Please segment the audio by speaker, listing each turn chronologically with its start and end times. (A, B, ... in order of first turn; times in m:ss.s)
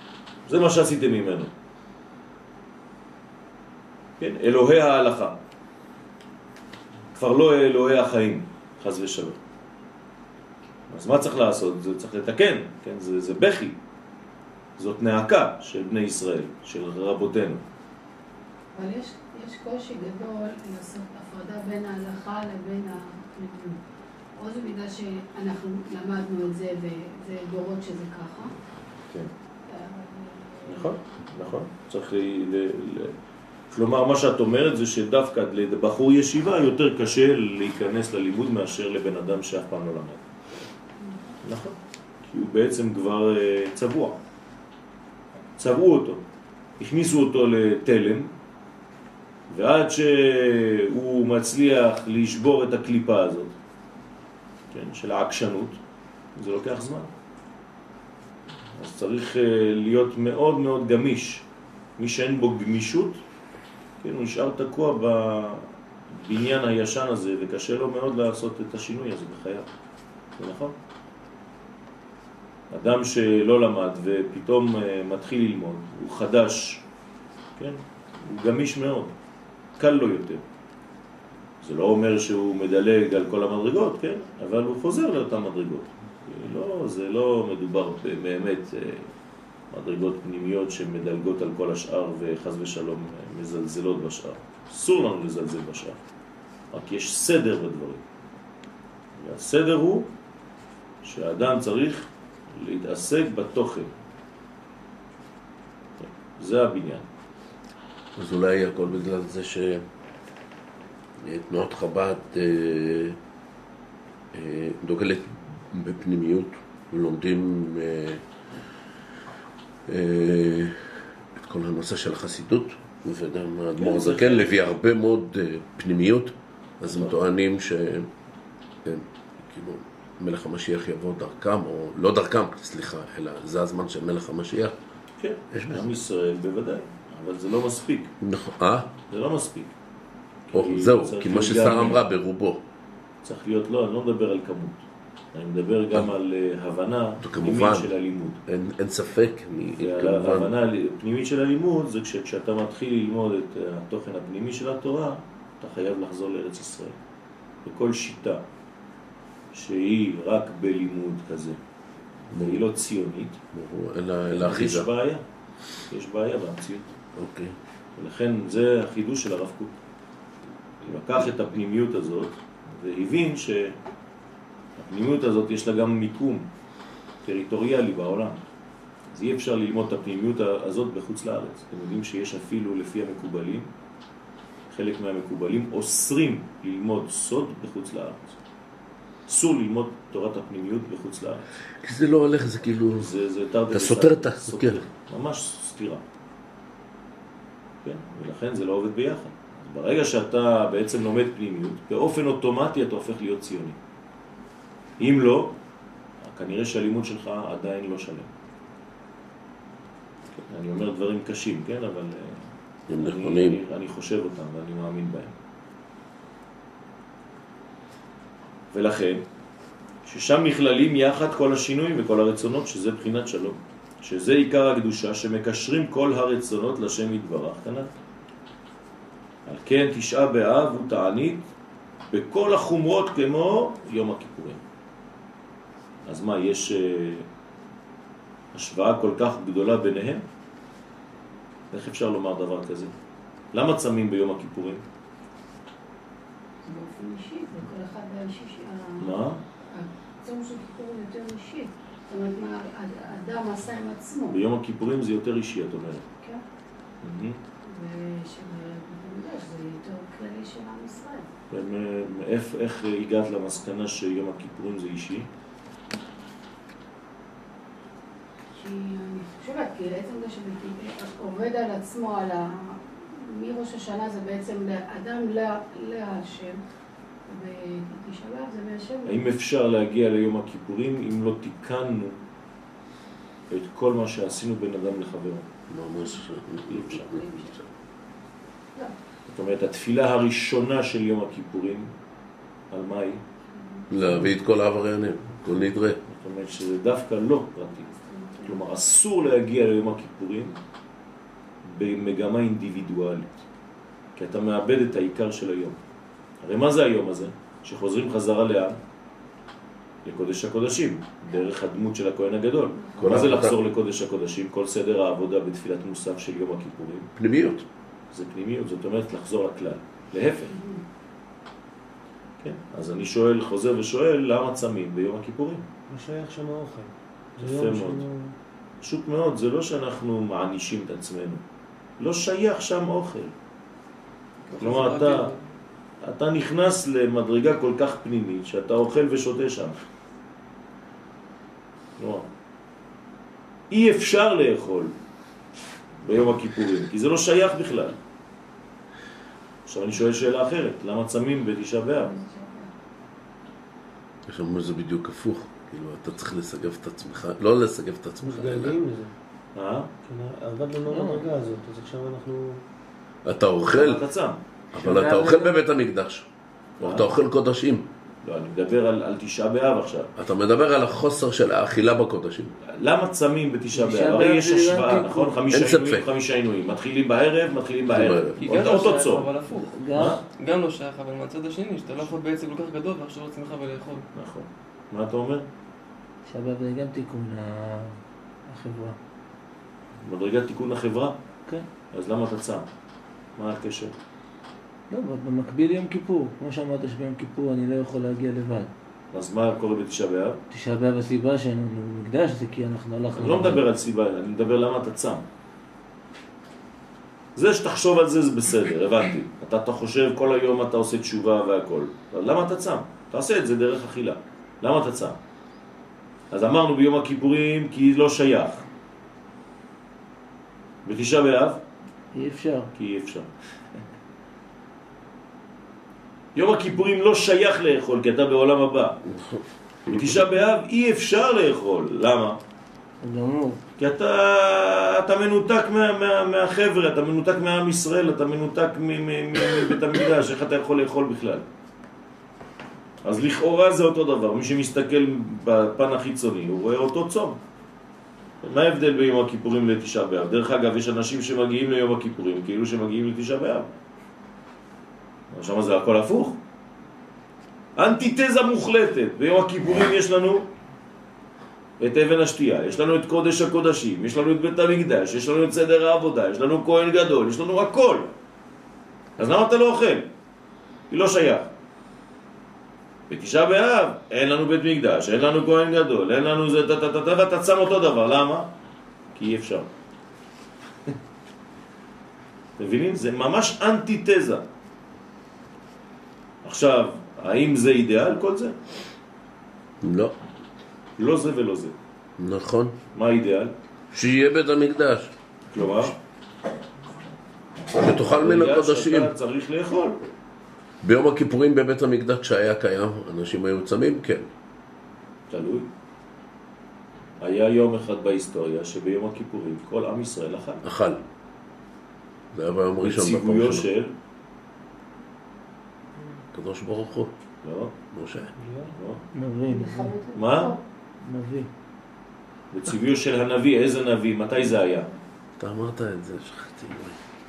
0:00.5-0:01.5 A
0:04.2-0:05.4 A
0:07.1-0:09.4 A
0:10.9-0:13.8 A
0:14.8-0:17.6 A
0:18.8-0:23.8 B
0:24.4-0:28.5 B
0:29.7-0:31.0 B
0:30.7-0:33.1 A
0:33.7-0:40.2 A
0:41.4-0:44.2 A
0:45.6-0:46.2 A
0:46.8-0:48.3 A
0:49.5-0:53.5 A
0:54.7-0:55.8 A
0:56.4-0:57.1 A
0:58.8-1:01.4 A
1:02.0-1:03.2 A
1:04.0-1:09.7 A
1:10.4-1:10.8 A
1:12.7-1:16.8 A
1:17.6-1:19.1 A
1:19.8-1:20.4 A
1:21.6-1:29.1 A
1:29.7-1:36.0 A
1:36.7-1:38.0 A
1:39.2-1:40.1 A
1:41.0-1:43.9 A
1:46.0-1:47.1 A
1:48.2-1:49.8 C
1:51.2-1:53.2 C
1:54.3-1:58.2 C
1:59.9-2:08.1 C
2:03.8-2:04.7 A
2:06.8-2:07.2 A
2:08.8-2:14.8 C
2:15.2-2:18.1 A
2:15.5-2:15.9 C
2:18.2-2:18.9 C
2:19.1-2:19.7 A
2:20.5-2:22.0 A
2:20.5-2:22.6 C
2:23.2-2:24.8 A
2:25.3-2:28.4 A
2:27.2-2:27.9 C
2:28.5-2:30.5 C
2:29.8-2:37.0 A
2:37.6-2:38.4 A
2:39.5-2:41.6 A
2:42.3-2:42.6 C
2:42.3-2:43.4 A
2:43.5-2:44.9 C
2:44.3-2:45.2 A
2:45.9-2:46.9 A
2:47.2-2:47.6 C
2:48.0-2:49.7 A
2:50.8-2:53.8 A
2:54.8-2:56.5 A
2:57.2-2:58.4 A
2:59.1-3:03.7 A
3:04.7-3:08.4 A
3:09.3-3:11.4 A
3:11.8-3:13.1 C
3:13.0-3:16.0 A
3:13.7-3:14.8 C
3:17.8-3:23.8 A
3:25.0-3:25.6 A
3:26.2-3:28.3 A
3:30.3-3:35.3 A
3:32.9-3:33.6 C
3:38.7-3:39.2 A
3:40.0-3:47.9 A
3:49.5-3:51.5 A
3:52.1-3:54.6 A
3:56.1-3:57.3 A
3:58.5-4:00.2 A
4:01.7-4:02.9 A
4:03.5-4:04.8 A
4:06.7-4:09.1 B
4:09.0-4:09.4 A
4:09.7-4:14.4 B
4:14.3-4:16.0 A
4:17.0-4:17.4 A
4:17.6-4:21.3 B
4:21.5-4:25.3 A
4:28.6-4:36.6 B
4:37.3-4:39.2 B
4:39.1-4:42.2 A
4:43.5-4:45.5 A
4:45.7-4:47.6 C
4:46.0-4:47.6 B
4:49.3-4:51.9 A
4:52.7-4:53.2 A
4:53.6-4:53.9 B
4:53.9-4:56.0 C
4:56.1-4:57.9 A
4:57.9-4:58.5 B
4:58.4-5:00.6 A
5:01.6-5:03.4 A
5:04.2-5:05.8 A
5:06.4-5:08.8 A
5:10.0-5:17.1 A
5:12.8-5:13.3 B
5:13.0-5:13.6 C
5:17.2-5:17.6 C
5:18.1-5:20.6 A
5:20.5-5:20.8 B
5:22.4-5:25.6 A
5:25.9-5:27.7 D
5:27.4-5:28.0 A
5:27.5-5:28.4 E
5:28.8-5:31.4 A
5:32.0-5:33.3 A
5:34.5-5:35.4 F
5:34.6-5:35.3 A
5:36.0-5:39.8 A
5:42.0-5:42.3 A
5:43.7-5:44.9 A
5:46.0-5:48.0 A
5:49.7-5:52.1 A
5:52.0-5:52.7 B
5:54.3-5:58.8 C
5:58.2-5:59.1 D
5:59.6-5:59.9 A
6:00.0-6:02.6 D
6:00.9-6:01.3 E
6:03.2-6:04.1 C
6:03.7-6:04.4 A
6:04.7-6:06.3 C
6:04.8-6:05.5 E
6:06.8-6:07.1 A
6:06.8-6:07.9 C
6:08.2-6:10.1 A
6:10.2-6:12.6 C
6:12.7-6:19.3 A
6:13.7-6:15.4 E
6:15.5-6:16.1 C
6:17.9-6:18.4 C
6:18.4-6:24.1 F
6:19.6-6:20.2 E
6:19.9-6:20.2 A
6:24.1-6:25.5 A
6:26.3-6:29.0 E
6:30.0-6:31.2 A
6:31.9-6:32.7 A
6:33.4-6:33.9 A
6:34.9-6:38.7 E
6:39.1-6:40.4 A
6:40.5-6:43.6 E
6:43.2-6:45.2 A
6:47.4-6:55.2 A
6:56.3-6:58.7 A
7:00.8-7:01.6 A
7:02.1-7:02.7 E
7:02.8-7:03.3 A
7:06.4-7:09.0 A
7:09.1-7:10.2 C
7:09.9-7:12.4 A
7:13.0-7:13.6 E
7:13.8-7:21.4 A
7:23.0-7:27.4 A
7:28.4-7:33.7 A
7:35.3-7:36.4 A
7:37.8-7:40.5 A
7:41.8-7:48.1 A
7:49.2-7:50.1 A
7:50.9-7:51.5 A
7:53.1-7:58.5 A
7:59.2-7:59.7 A
8:02.6-8:04.4 A
8:06.4-8:08.6 A
8:09.8-8:10.2 C
8:11.0-8:11.7 A
8:12.2-8:12.8 C
8:12.9-8:13.5 A
8:13.9-8:15.1 C
8:15.5-8:16.0 A
8:17.7-8:19.1 C
8:17.9-8:20.0 A
8:20.8-8:24.3 C
8:25.3-8:25.7 A
8:27.2-8:30.6 A
8:30.6-8:31.0 C
8:32.3-8:33.7 C
8:32.8-8:33.9 A
8:36.3-8:37.1 C
8:37.4-8:37.7 A
8:37.9-8:38.3 C
8:38.4-8:38.7 D
8:38.7-8:39.0 A
8:39.1-8:40.0 E
8:39.5-8:40.6 B
8:40.2-8:40.6 A
8:41.0-8:41.5 E
8:42.5-8:44.9 A
8:45.4-8:47.0 C